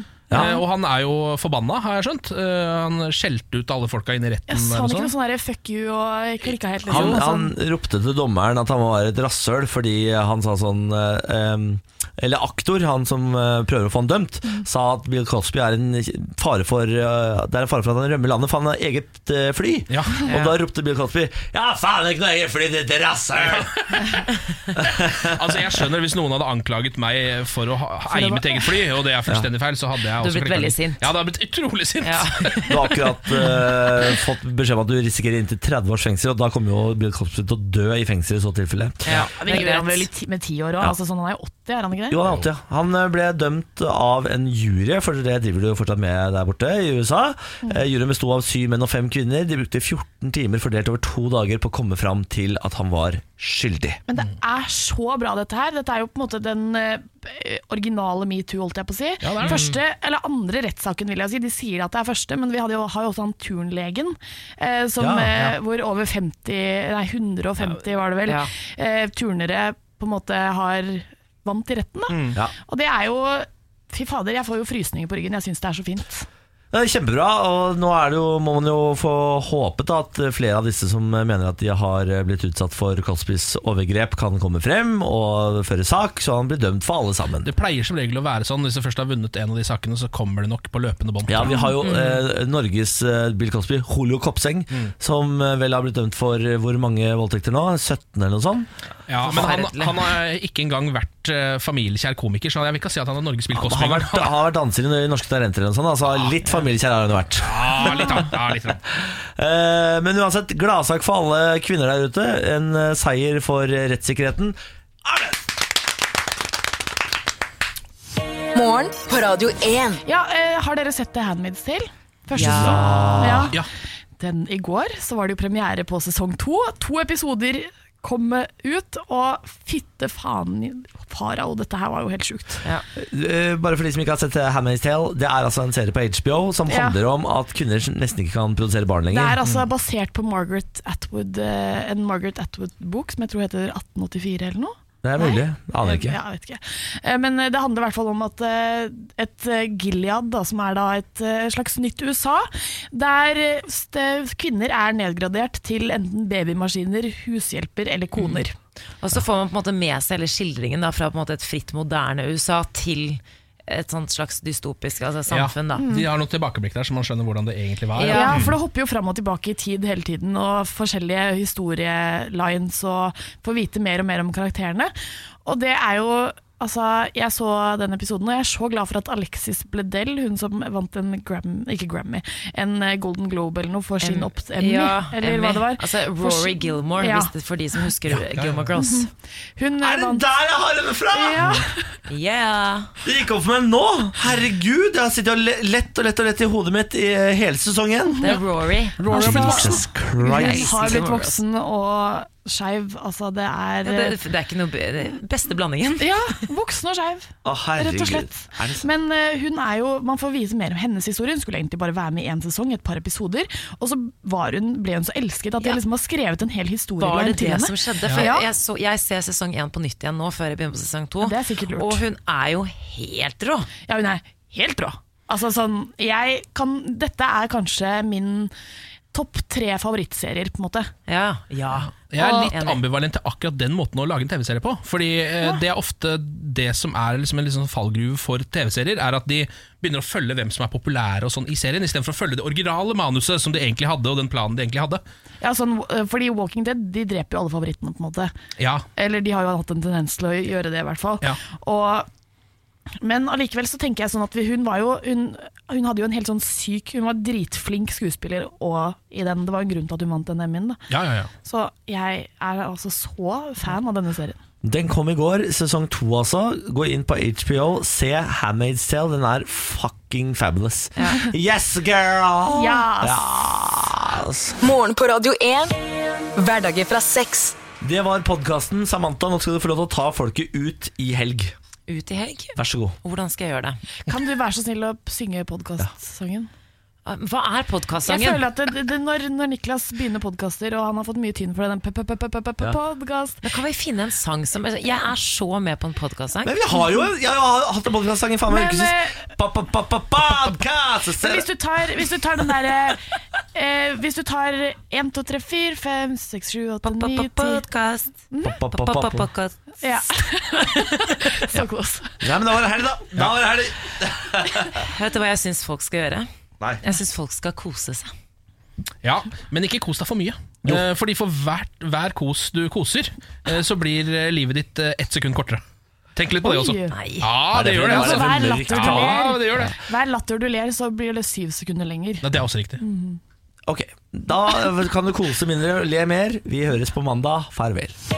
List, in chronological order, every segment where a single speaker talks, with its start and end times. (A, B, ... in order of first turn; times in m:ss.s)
0:00.3-0:05.1 A
0:00.3-0:00.6 B
0:04.5-0:07.5 C
0:06.9-0:07.2 A
0:06.9-0:23.7 B
0:19.9-0:20.2 A
0:20.3-0:20.5 D
0:23.4-0:24.0 A
0:24.8-0:25.5 B
0:24.9-0:32.6 A
0:28.1-0:28.6 C
0:30.2-0:31.0 D
0:32.0-0:32.7 D
0:32.7-0:39.0 B
0:39.0-0:40.1 D
0:39.1-0:42.2 C
0:42.1-0:54.0 B
0:54.1-1:16.3 C
0:59.2-0:59.6 A
0:59.4-0:59.8 D
1:05.0-1:05.5 B
1:16.7-1:27.5 B
1:27.4-1:31.6 A
1:31.3-1:38.7 B
1:31.5-1:31.7 C
1:31.8-1:32.2 D
1:39.1-1:44.3 A
1:39.2-1:40.1 D
1:43.5-1:48.3 B
1:47.4-1:48.8 A
1:48.9-1:55.4 B
1:58.5-2:00.0 E
2:00.0-2:03.6 C
2:02.3-2:03.1 D
2:02.4-2:03.6 B
2:04.2-2:12.6 C
2:13.0-2:19.4 B
2:16.7-2:17.0 C
2:19.1-2:38.5 C
2:25.0-2:26.2 B
2:38.1-2:38.4 D
2:39.0-2:45.8 D
2:45.3-2:48.5 A
2:45.8-2:46.1 C
2:48.0-2:48.4 D
2:48.0-3:08.2 C
3:04.0-3:09.1 D
3:08.3-3:08.7 A
3:08.8-3:10.2 C
3:09.8-3:11.6 B
3:11.1-3:11.9 C
3:12.1-3:12.9 D
3:13.0-3:18.4 B
3:18.1-3:18.4 C
3:18.2-3:21.4 D
3:19.0-3:21.0 B
3:19.0-3:24.2 C
3:23.8-3:26.4 D
3:26.0-3:38.4 C
3:27.4-3:28.8 B
3:37.0-3:43.7 D
3:41.2-3:42.0 C
3:43.8-3:48.5 C
3:49.1-3:50.9 C
3:51.1-3:52.8 D
3:52.1-4:05.0 A
3:52.2-3:52.5 C
4:05.4-4:08.3 C
4:08.6-4:08.8 A
4:09.0-4:12.1 C
4:13.0-4:20.8 C
4:20.9-4:21.3 A
4:21.4-4:24.4 C
4:24.6-4:34.6 B
4:31.0-4:31.3 C
4:32.4-4:33.3 C
4:34.6-4:35.8 E
4:36.4-4:37.6 E
4:37.8-4:41.5 B
4:41.9-4:43.8 D
4:42.6-4:43.0 B
4:44.0-4:46.5 C
4:47.0-4:48.4 D
4:48.0-4:53.4 C
4:53.4-4:56.5 D
4:56.4-5:01.4 B
4:58.5-4:59.2 C
5:01.2-5:03.0 C
5:03.5-5:07.6 C
5:06.8-5:11.6 D
5:08.4-5:09.3 B
5:09.8-5:12.3 C
5:12.2-5:14.8 B
5:14.8-5:16.3 D
5:16.8-5:18.1 D
5:19.0-5:25.6 A
5:26.2-5:29.8 A
5:26.4-5:27.0 C
5:26.9-5:27.3 D
5:27.5-5:29.2 B
5:27.7-5:32.2 C
5:32.2-5:32.8 A
5:32.8-5:33.2 C
5:33.7-5:38.0 B